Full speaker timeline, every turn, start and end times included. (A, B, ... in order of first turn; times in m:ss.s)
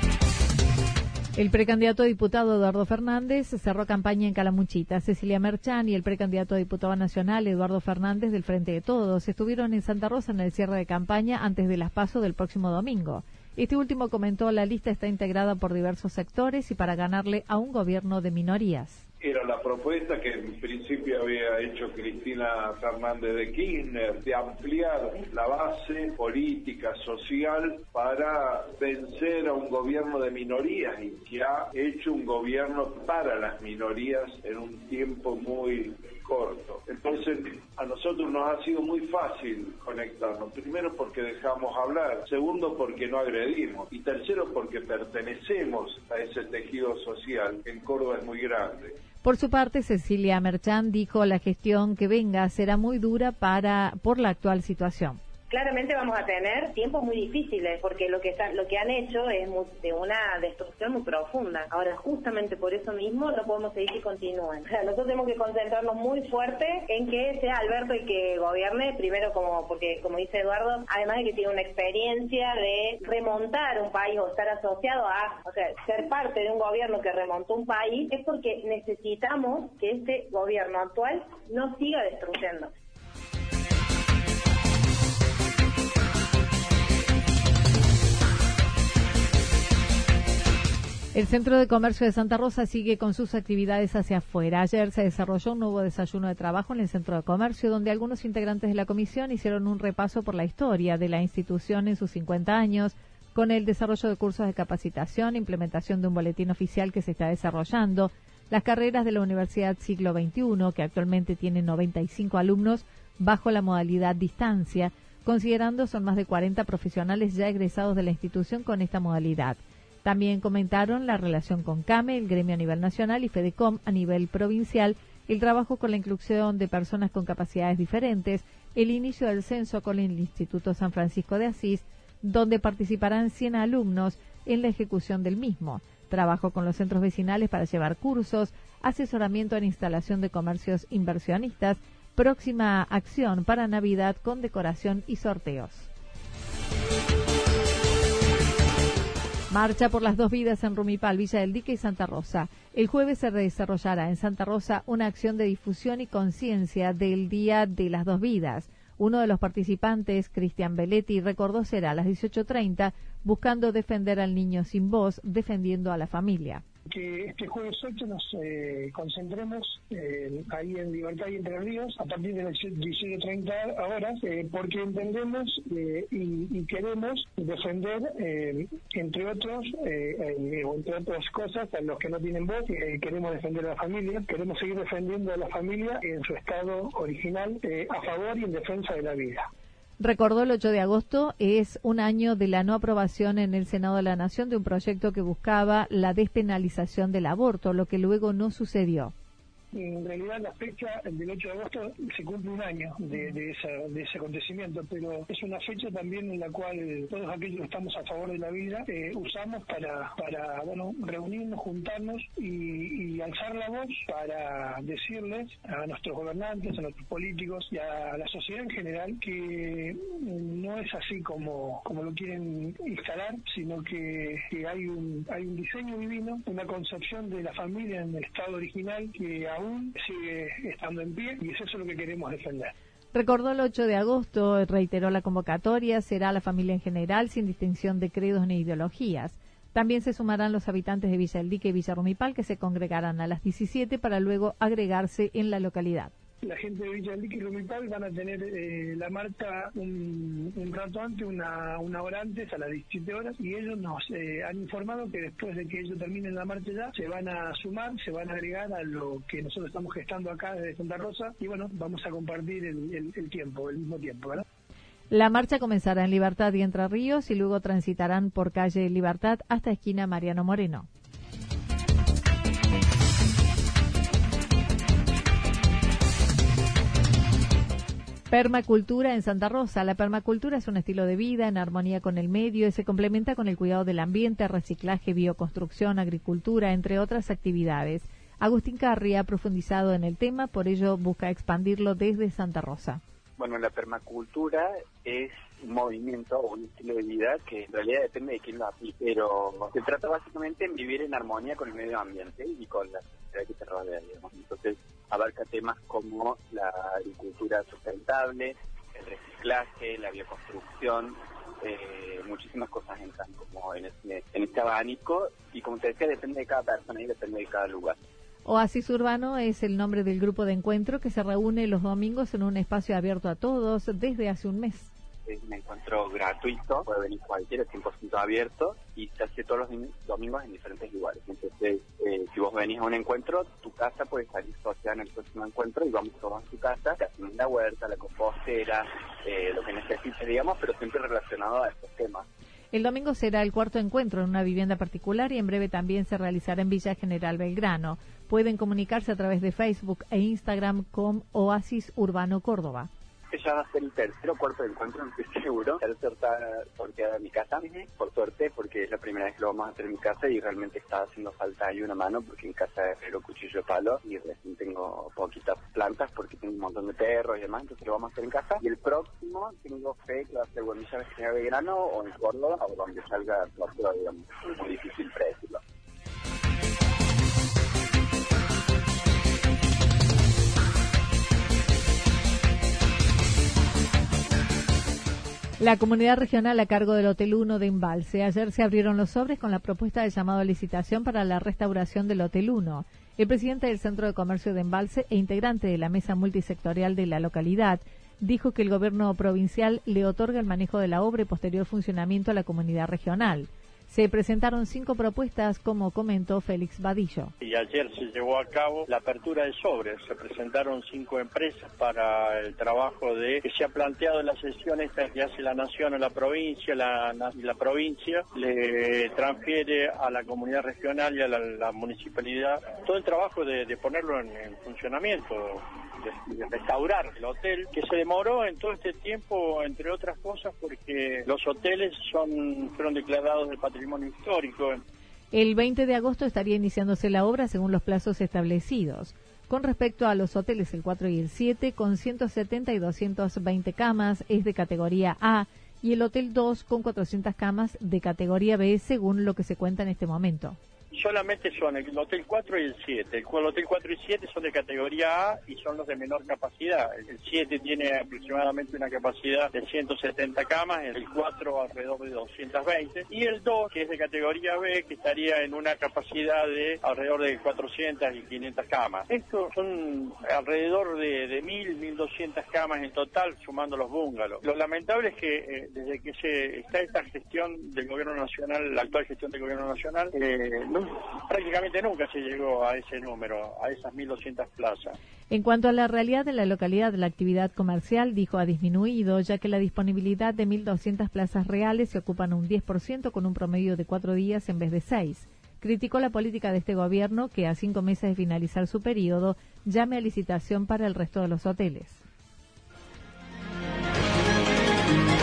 0:01.4-0:19.1 A
0:19.2-0:49.0 B
0:49.2-0:55.2 A
0:55.5-1:22.7 C
1:31.1-2:25.9 A
2:29.5-2:46.6 A
2:46.9-3:09.5 D
3:10.0-3:19.1 A
3:19.7-3:52.7 D
3:53.1-4:06.1 A
4:06.4-4:24.4 D
4:25.1-4:30.9 A
4:38.3-4:53.0 A
4:53.4-5:18.0 E
5:18.4-5:24.9 A
5:25.3-5:42.3 E
5:42.7-5:52.9 A
5:53.3-6:15.6 E
6:25.6-6:47.3 A
6:47.4-7:14.8 F
7:15.3-7:30.6 A
7:30.9-8:05.0 F
8:05.3-8:22.0 A